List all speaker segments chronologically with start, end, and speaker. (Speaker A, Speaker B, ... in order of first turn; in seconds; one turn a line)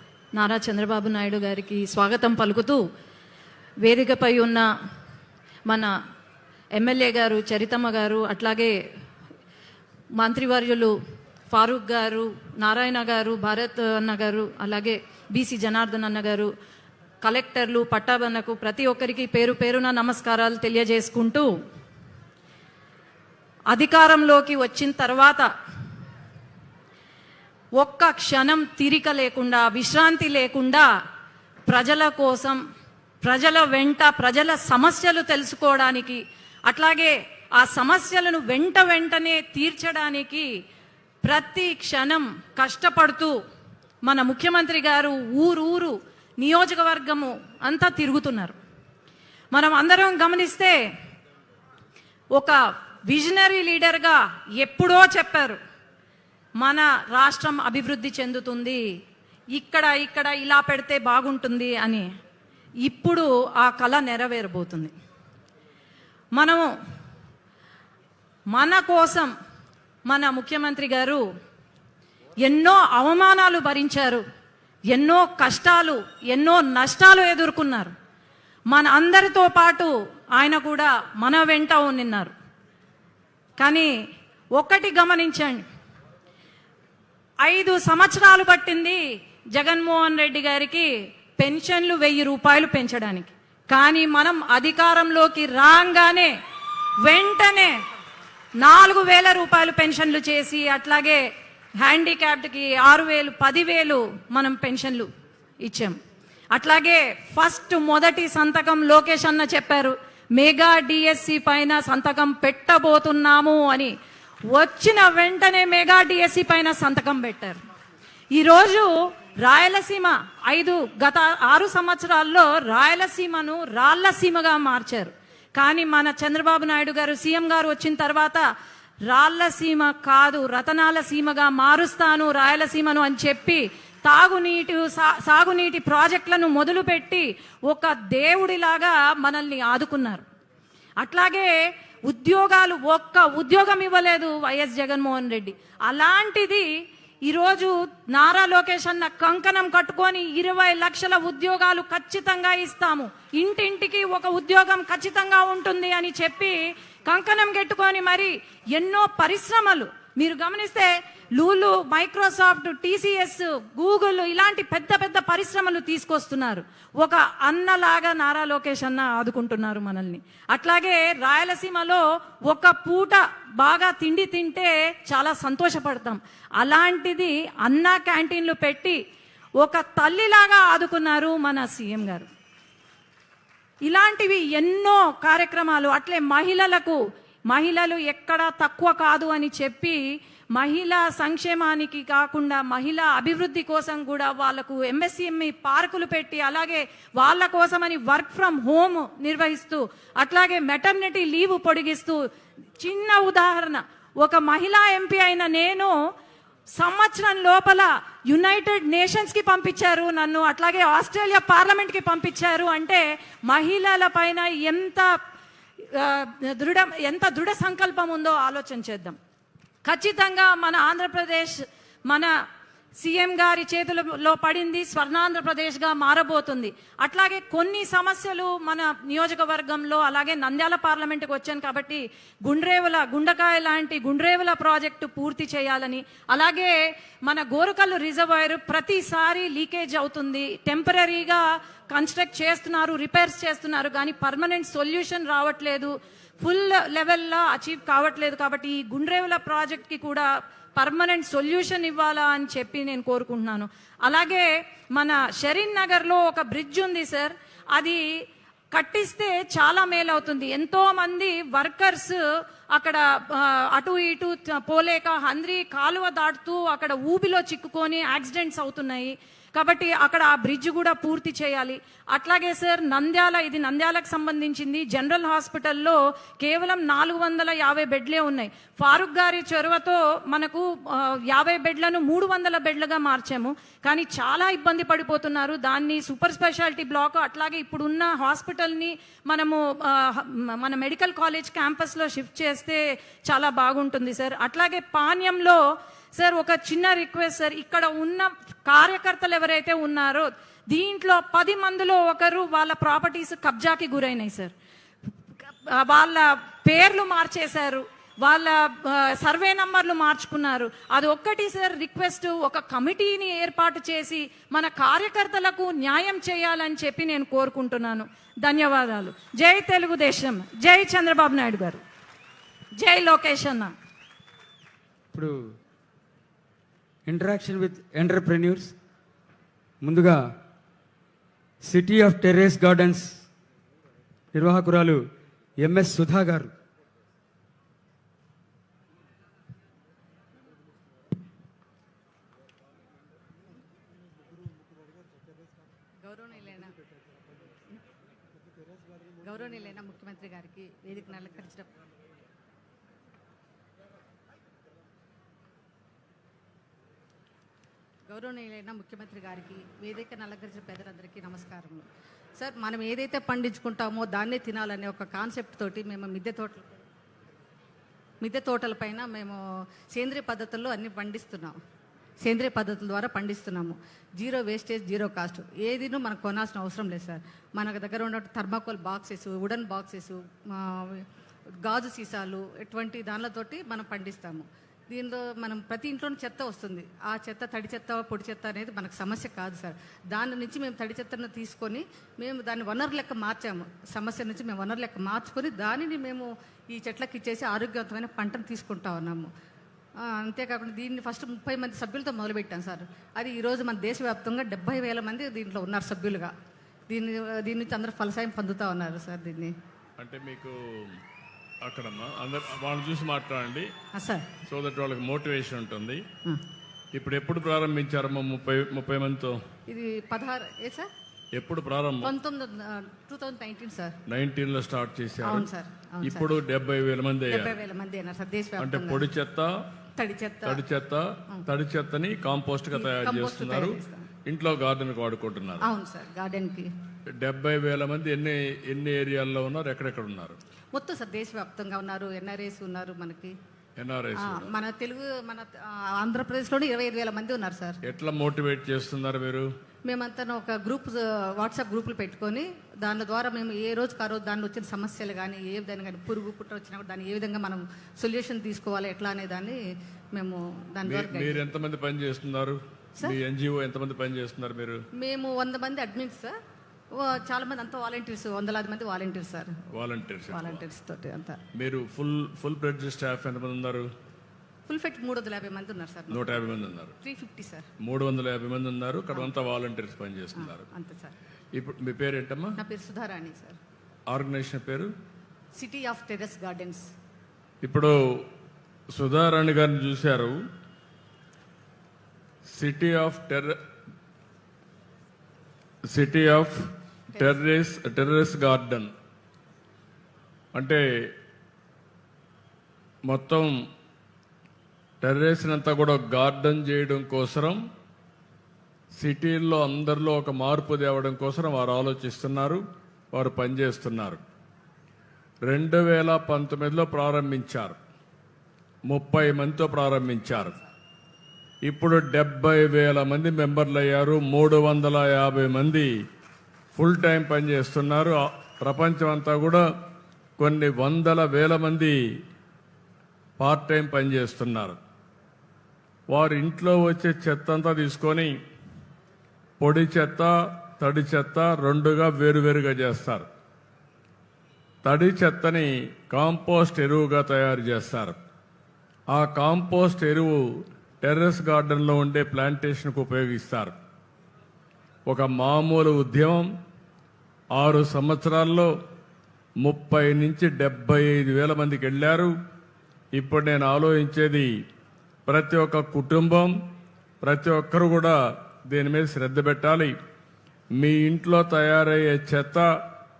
Speaker A: 0.3-2.8
Speaker A: 3.8-4.7
Speaker A: 6.8-8.7
Speaker A: 10.2-10.9
Speaker A: 11.5-16.5
Speaker A: 17.2-21.5
Speaker A: 23.7-25.5
Speaker A: 27.8-30.9
Speaker A: 31.7-32.6
Speaker A: 33.2-40.5
Speaker A: 41.2-43.3
Speaker A: 44.0-48.6
Speaker A: 49.5-50.8
Speaker A: 53.1-55.6
Speaker A: 56.6-58.8
Speaker A: 59.5-62.0
Speaker A: 62.8-64.9
Speaker A: 66.3-66.7
Speaker A: 68.5-69.3
Speaker A: 70.0-71.2
Speaker A: 72.4-74.2
Speaker A: 74.9-77.9
Speaker A: 78.7-82.3
Speaker A: 83.6-83.9
Speaker A: 84.6-85.6
Speaker A: 87.4-89.0
Speaker A: 89.5-96.3
Speaker A: 97.0-97.8
Speaker A: 98.6-101.2
Speaker A: 101.8-105.1
Speaker A: 105.6-106.0
Speaker A: 106.5-113.9
Speaker A: 114.5-117.6
Speaker A: 118.3-128.4
Speaker A: 129.1-140.2
Speaker A: 141.0-141.5
Speaker A: 142.1-146.7
Speaker A: 147.3-179.0
Speaker A: 179.6-182.3
Speaker A: 183.8-190.0
Speaker A: 190.6-202.2
Speaker A: 202.8-205.9
Speaker A: 206.7-215.1
Speaker A: 215.9-219.2
Speaker A: 219.8-221.6
Speaker A: 223.0-258.0
Speaker A: 258.7-262.2
Speaker A: 262.7-295.6
Speaker A: 296.2-304.5
Speaker A: 305.7-321.8
Speaker A: 322.8-323.7
Speaker B: 325.1-325.6
Speaker B: 327.1-328.8
Speaker B: 329.8-330.4
Speaker B: 331.6-333.2
Speaker B: 334.3-335.1
Speaker B: 335.6-336.5
Speaker C: 346.0-346.8
Speaker C: 349.2-351.8
Speaker C: 358.1-361.9
Speaker C: 362.4-366.8
Speaker C: 368.2-369.4
Speaker C: 369.9-371.6
Speaker C: 372.2-381.1
Speaker C: 381.6-399.3
Speaker C: 400.0-406.3
Speaker C: 406.9-409.5
Speaker D: 410.0-411.0
Speaker D: 411.6-413.7
Speaker C: 413.9-414.3
Speaker D: 414.5-416.0
Speaker D: 416.9-419.4
Speaker C: 419.7-420.9
Speaker D: 421.3-422.1
Speaker C: 422.0-424.0
Speaker D: 424.1-425.5
Speaker C: 425.2-426.3
Speaker D: 426.0-427.6
Speaker C: 427.3-429.1
Speaker D: 428.6-429.5
Speaker C: 430.0-430.6
Speaker D: 430.4-435.7
Speaker C: 432.7-434.1
Speaker C: 435.6-436.7
Speaker D: 437.2-440.4
Speaker C: 440.7-443.3
Speaker D: 443.8-444.5
Speaker C: 444.2-447.8
Speaker D: 447.9-449.5
Speaker C: 449.9-459.6
Speaker C: 460.1-461.5
Speaker D: 460.9-464.8
Speaker C: 465.0-466.3
Speaker C: 467.0-469.5
Speaker D: 469.7-470.6
Speaker C: 470.3-471.4
Speaker D: 471.6-473.9
Speaker C: 474.7-477.7
Speaker D: 476.1-477.0
Speaker D: 477.8-480.7
Speaker C: 480.4-481.2
Speaker D: 481.6-482.6
Speaker C: 482.6-483.6
Speaker D: 484.1-484.9
Speaker C: 485.6-486.9
Speaker D: 487.6-488.0
Speaker D: 488.9-490.4
Speaker D: 492.5-493.6
Speaker D: 495.9-498.9
Speaker C: 497.2-497.4
Speaker D: 500.5-500.8
Speaker D: 503.1-503.5
Speaker D: 505.0-507.6
Speaker D: 509.0-514.2
Speaker D: 515.4-517.8
Speaker D: 518.9-520.6
Speaker D: 521.6-525.9
Speaker D: 526.8-529.6
Speaker D: 530.4-532.0
Speaker D: 533.4-534.8
Speaker D: 536.1-538.3
Speaker D: 539.6-543.3
Speaker D: 544.8-548.2
Speaker D: 549.1-550.4
Speaker D: 551.0-553.8
Speaker D: 555.1-556.5
Speaker D: 557.5-558.7
Speaker D: 559.6-562.3
Speaker D: 563.1-564.5
Speaker D: 565.3-566.5
Speaker D: 567.2-569.9
Speaker D: 570.8-572.7